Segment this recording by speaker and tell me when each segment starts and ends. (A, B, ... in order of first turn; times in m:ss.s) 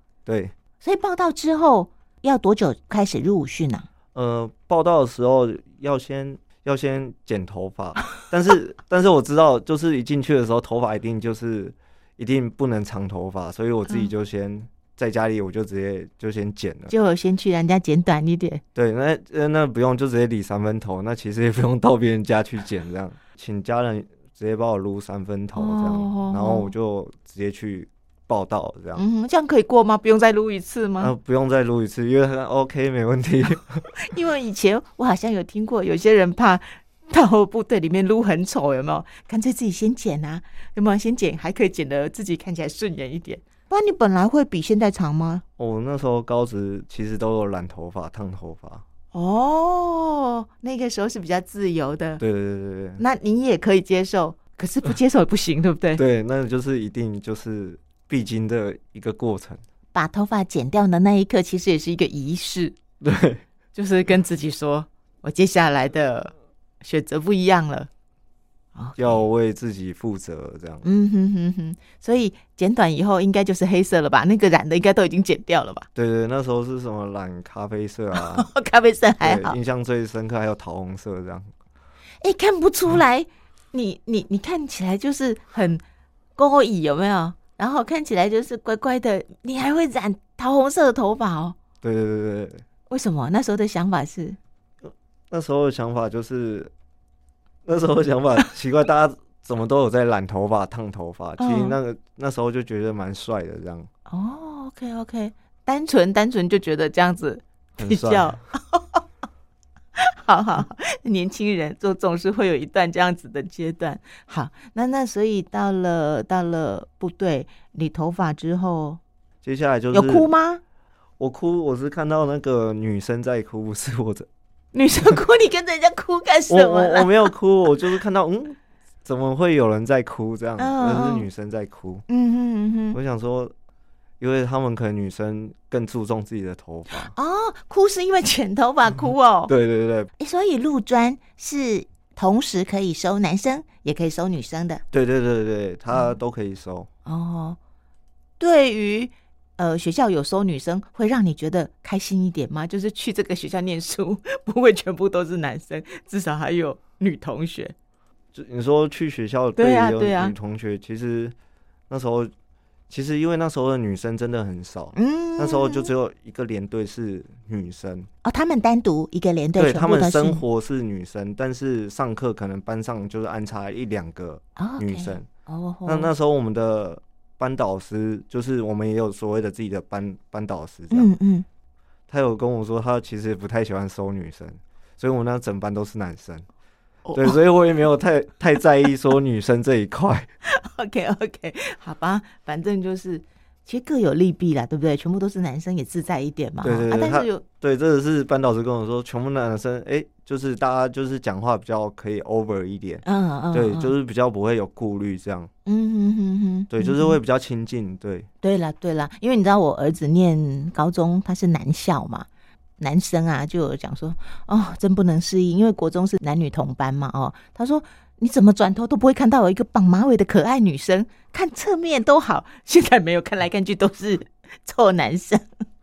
0:00.2-0:00.5 A
0:00.8-0:03.9 B
0:04.1-0:16.9 A
0:16.9-0:18.6 B
0:18.7-0:29.0 A
0:25.5-0:26.7 B
0:29.0-0:31.1 B
0:31.0-0:33.8 A
0:33.9-0:45.4 B
0:45.6-0:48.8 A
0:49.1-0:52.2 B
0:52.2-0:53.0 A
0:53.0-0:56.0 B
0:56.0-0:59.6 A
0:59.9-1:02.8 B
1:03.0-1:03.4 A
1:03.7-1:07.9 B
1:08.7-1:09.2 B
1:09.0-1:10.8 A
1:10.8-1:15.9 B
1:15.9-1:18.5 A
1:18.1-1:19.6 B
1:19.2-1:21.5 A
1:22.2-1:25.8 B
1:26.4-1:31.6 B
1:31.8-1:32.6 A
1:32.9-1:34.4 B
1:35.3-1:36.7 A
1:37.6-1:43.9 A
1:41.4-1:41.8 B
1:44.1-1:49.0 B
1:47.8-1:48.4 A
1:50.0-1:59.0 B
1:59.4-2:00.3 A
1:59.9-2:00.6 B
2:01.2-2:04.3 A
2:04.7-2:07.3 B
2:06.5-2:12.0 A
2:10.6-2:11.2 B
2:12.1-2:13.0 B
2:12.9-2:13.5 A
2:14.2-2:17.1 A
2:17.1-2:19.5 B
2:19.5-2:20.1 A
2:20.2-2:24.8 B
2:24.9-2:26.9 A
2:27.0-2:27.6 B
2:28.4-2:37.7 B
2:38.3-2:41.3 A
2:39.6-2:40.3 B
2:41.9-2:42.3 A
2:42.9-2:48.1 A
2:44.9-2:45.9 B
2:48.2-2:50.4 B
2:49.6-2:55.3 A
2:54.6-2:56.1 B
2:55.8-3:01.1 A
3:00.9-3:01.4 B
3:02.1-3:06.4 A
3:07.0-3:07.4 B
3:07.1-3:10.3 A
3:10.4-3:17.4 B
3:16.6-3:25.5 A
3:23.0-3:23.9 B
3:25.6-3:27.2 B
3:26.7-3:28.3 A
3:28.4-3:32.3 B
3:32.8-3:45.4 B